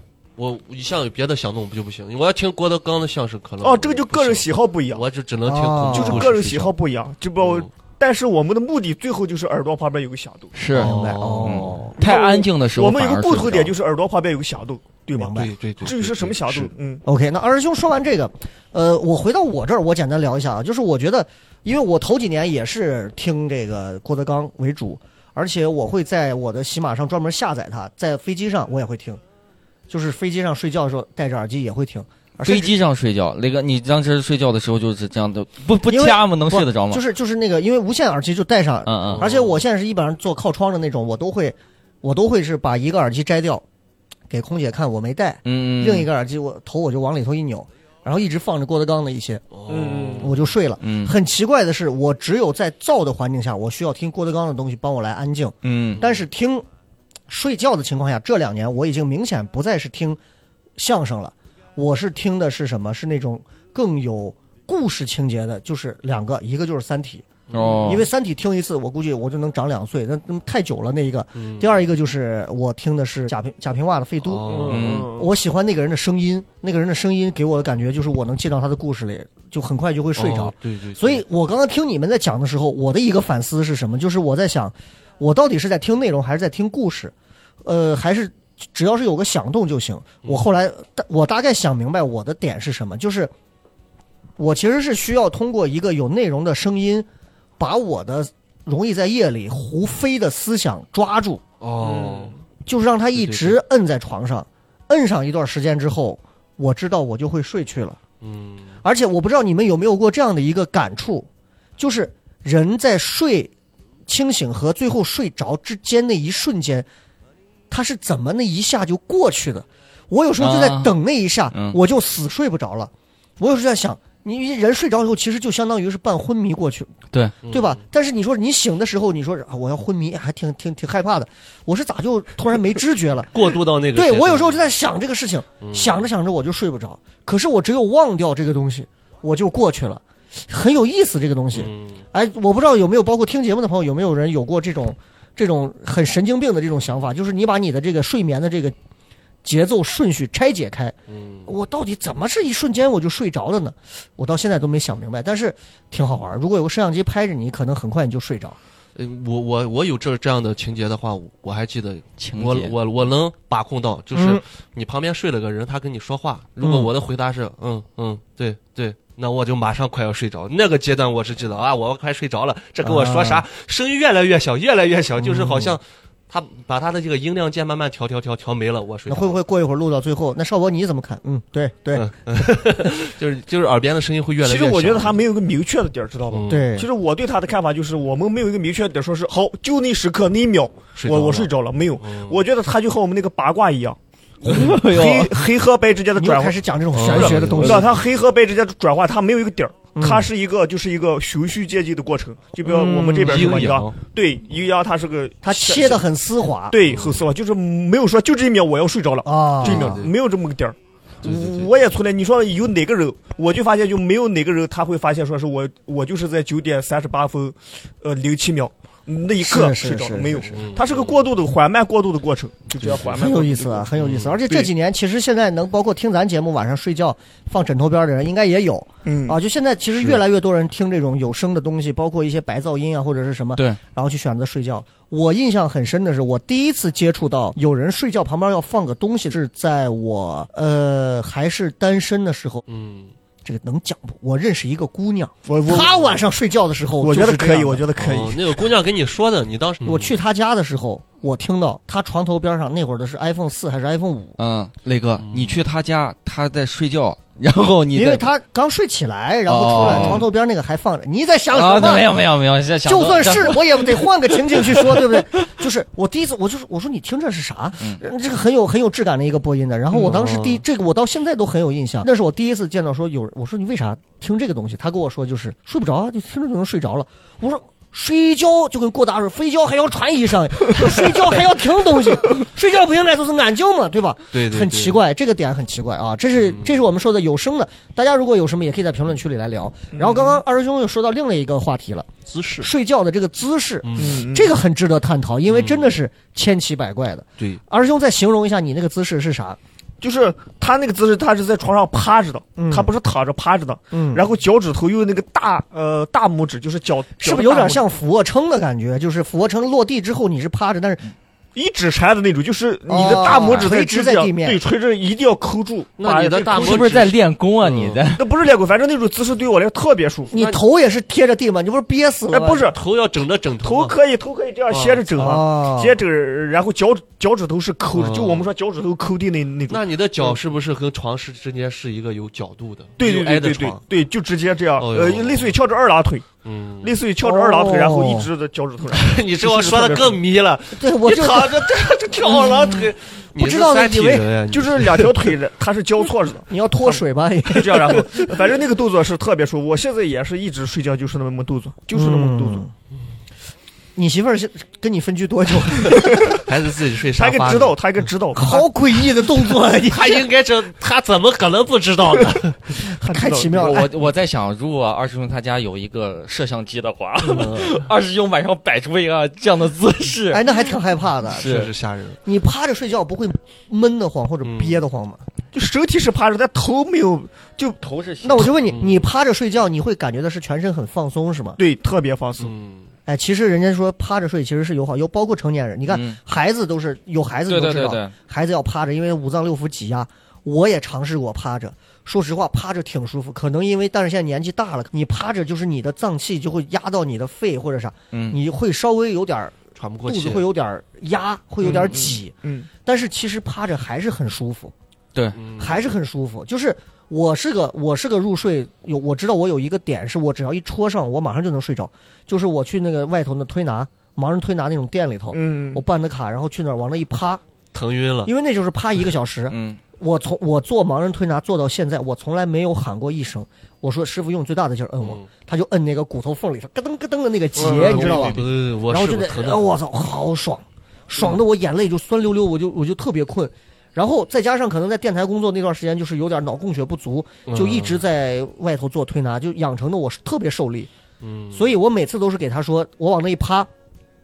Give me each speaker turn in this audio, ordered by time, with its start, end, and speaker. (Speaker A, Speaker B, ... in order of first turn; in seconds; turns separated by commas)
Speaker A: 0.4-6.7, Speaker B: 3.6-5.1, Speaker C: 5.5-6.3, Speaker B: 5.9-10.5, Speaker A: 7.4-7.7, Speaker D: 10.5-13.8, Speaker A: 10.7-11.9, Speaker C: 10.8-11.9, Speaker B: 12.0-17.0, Speaker C: 15.2-15.5, Speaker A: 15.4-16.7, Speaker C: 17.1-29.2, Speaker C: 29.9-32.7, Speaker D: 32.4-37.0, Speaker C: 35.9-43.6, Speaker D: 38.9-39.2, Speaker A: 39.0-39.6, Speaker C: 44.3-49.4, Speaker D: 45.5-46.1, Speaker A: 49.5-50.4, Speaker B: 49.7-50.3, Speaker C: 50.2-56.6, Speaker D: 50.8-51.1, Speaker D: 55.6-56.0, Speaker A: 55.9-56.2, Speaker C: 57.3-60.2, Speaker C: 60.8-67.3, Speaker A: 67.5-68.0, Speaker D: 67.5-68.1, Speaker C: 67.8-87.1, Speaker A: 71.3-71.8, Speaker A: 74.2-75.0, Speaker B: 74.5-75.3, Speaker D: 74.7-75.1, Speaker A: 80.2-81.2, Speaker C: 87.7-93.3, Speaker C: 94.4-97.1, Speaker C: 97.6-101.4, Speaker A: 101.6-102.3, Speaker B: 101.8-102.4, Speaker C: 102.7-108.0, Speaker A: 103.1-103.6, Speaker A: 108.2-108.8, Speaker C: 108.8-113.5, Speaker C: 114.1-116.9, Speaker C: 117.7-126.9, Speaker D: 120.4-120.9, Speaker D: 121.5-121.8, Speaker A: 127.4-127.8, Speaker C: 127.5-133.3, Speaker A: 133.3-134.6, Speaker C: 133.9-148.8, Speaker A: 135.6-136.0, Speaker A: 141.5-142.0, Speaker C: 149.4-150.9, Speaker A: 151.1-151.5, Speaker C: 151.5-158.6, Speaker A: 159.0-179.4, Speaker D: 162.2-162.7, Speaker C: 164.1-164.4, Speaker C: 166.6-166.9, Speaker C: 172.8-173.4, Speaker C: 175.2-175.8, Speaker C: 179.1-182.1, Speaker A: 181.9-185.2, Speaker B: 184.4-206.1, Speaker A: 186.3-186.7, Speaker C: 186.5-186.9, Speaker A: 191.0-192.4, Speaker D: 194.4-195.3, Speaker C: 196.2-197.9, Speaker A: 196.9-197.9, Speaker C: 199.9-200.3, Speaker C: 202.6-203.7, Speaker A: 203.2-204.0, Speaker C: 205.4-206.8, Speaker B: 206.7-223.9, Speaker A: 206.9-207.2, Speaker C: 209.2-210.0, Speaker A: 209.6-210.1, Speaker A: 211.2-211.7, Speaker C: 219.4-220.5, Speaker A: 220.5-221.2, Speaker A: 222.8-223.2, Speaker C: 223.1-242.6, Speaker A: 224.0-224.4, Speaker B: 229.1-229.4, Speaker A: 242.7-243.1, Speaker C: 243.4-247.9, Speaker B: 245.5-246.0, Speaker B: 247.0-248.7, Speaker A: 248.0-250.2, Speaker C: 249.8-254.4, Speaker D: 254.4-258.3, Speaker A: 255.2-255.6, Speaker C: 257.9-262.2, Speaker D: 259.5-260.3, Speaker A: 259.8-260.2, Speaker D: 261.5-265.2, Speaker C: 262.9-292.1, Speaker A: 270.0-270.6, Speaker A: 284.3-285.0, Speaker A: 286.4-286.8, Speaker B: 289.9-290.4, Speaker A: 292.3-292.7, Speaker C: 292.6-299.6, Speaker A: 293.8-294.2, Speaker B: 294.0-294.5, Speaker A: 295.5-295.9, Speaker B: 300.0-307.9, Speaker C: 302.6-302.9, Speaker C: 303.9-304.2, Speaker C: 307.2-311.1, Speaker B: 311.6-317.0, Speaker C: 312.9-314.6, Speaker A: 316.0-318.0, Speaker D: 316.5-318.3, Speaker B: 318.2-320.3, Speaker A: 320.3-320.6, Speaker C: 320.3-322.7, Speaker B: 322.3-322.8, Speaker A: 322.7-323.9, Speaker B: 323.6-330.4, Speaker A: 324.7-325.1, Speaker C: 325.2-326.0, Speaker A: 327.9-328.5, Speaker A: 329.7-333.8, Speaker B: 333.0-336.3, Speaker A: 334.8-335.6, Speaker A: 336.4-337.0, Speaker B: 336.8-340.2, Speaker C: 337.2-338.3, Speaker A: 338.9-345.2, Speaker C: 340.8-341.7, Speaker B: 341.1-342.8, Speaker C: 342.2-344.3, Speaker B: 344.5-347.0, Speaker C: 346.5-348.3, Speaker B: 347.5-352.6, Speaker C: 351.9-352.7, Speaker C: 354.0-356.4, Speaker A: 356.2-357.8, Speaker B: 357.2-358.7, Speaker C: 358.3-360.2, Speaker A: 359.9-362.8, Speaker C: 362.8-363.9, Speaker B: 363.0-363.8, Speaker D: 363.6-370.6, Speaker A: 367.2-367.9, Speaker C: 370.3-371.6, Speaker D: 371.3-371.7, Speaker A: 371.3-372.2, Speaker C: 372.2-375.2, Speaker A: 374.4-374.8, Speaker B: 375.5-377.8, Speaker D: 377.8-378.6, Speaker C: 378.2-381.6, Speaker A: 378.7-379.1, Speaker B: 381.6-382.5, Speaker A: 382.4-382.9, Speaker C: 383.1-404.7, Speaker D: 385.9-386.2, Speaker D: 387.5-388.1, Speaker D: 398.1-398.4, Speaker A: 399.8-400.5, Speaker B: 401.7-402.7, Speaker A: 405.4-405.8, Speaker C: 405.6-417.4, Speaker B: 415.3-415.8, Speaker A: 417.7-418.3, Speaker C: 418.3-440.9, Speaker D: 419.5-419.8, Speaker A: 427.6-429.7, Speaker B: 427.6-428.4, Speaker A: 437.5-438.0, Speaker A: 441.2-441.7, Speaker C: 441.5-443.7